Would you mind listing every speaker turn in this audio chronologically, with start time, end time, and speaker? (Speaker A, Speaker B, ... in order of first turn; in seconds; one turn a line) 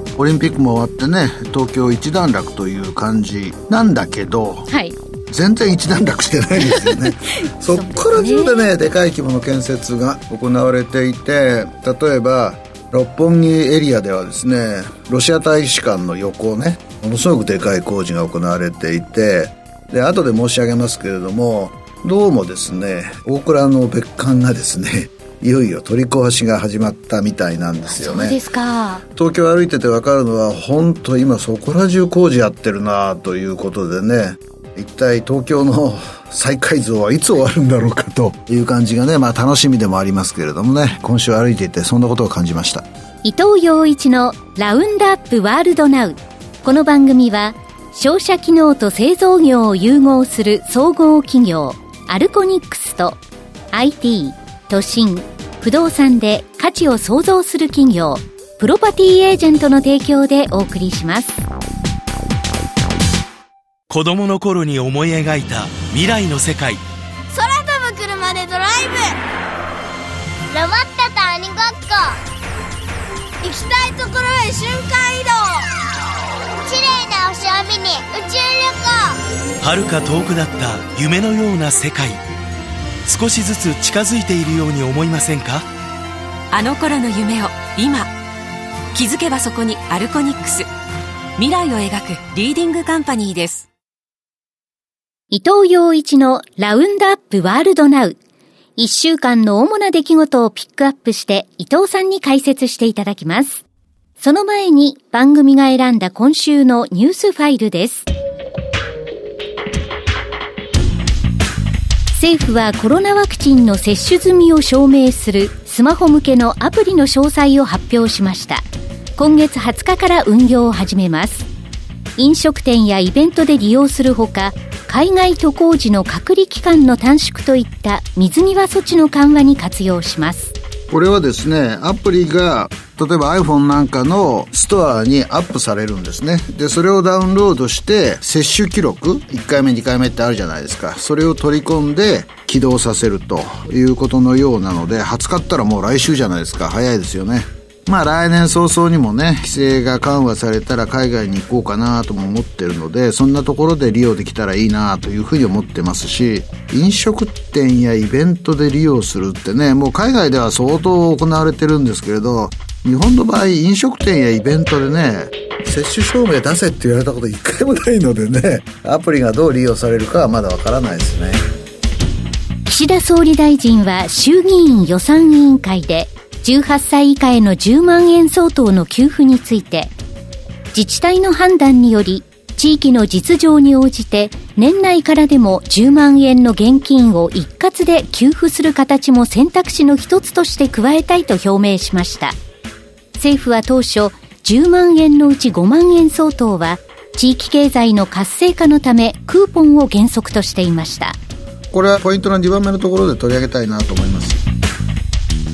Speaker A: 0.1-4.7
Speaker B: 4.7-4.9
Speaker A: 5.3-28.4
Speaker B: 6.6-8.7
Speaker B: 27.9-29.0
Speaker A: 29.1-42.8
Speaker B: 43.2-53.2
Speaker B: 53.7-61.4
Speaker C: 63.9-66.8
Speaker D: 67.3-69.2
Speaker D: 70.5-72.2
Speaker D: 73.4-75.7
Speaker D: 76.6-79.2
Speaker C: 79.6-82.2
Speaker C: 83.0-85.7
Speaker E: 86.5-88.1
Speaker E: 88.9-90.7
Speaker E: 91.4-93.7
Speaker B: 95.3-98.2
Speaker B: 98.8-103.6
Speaker B: 104.2-108.1
Speaker B: 112.1-118.6
Speaker B: 119.2-121.5
Speaker B: 122.2-130.5
Speaker A: 130.9-171.5
Speaker B: 172.6-179.9
Speaker B: 180.7-192.4
Speaker B: 193.2-201.2
Speaker A: 201.7-204.4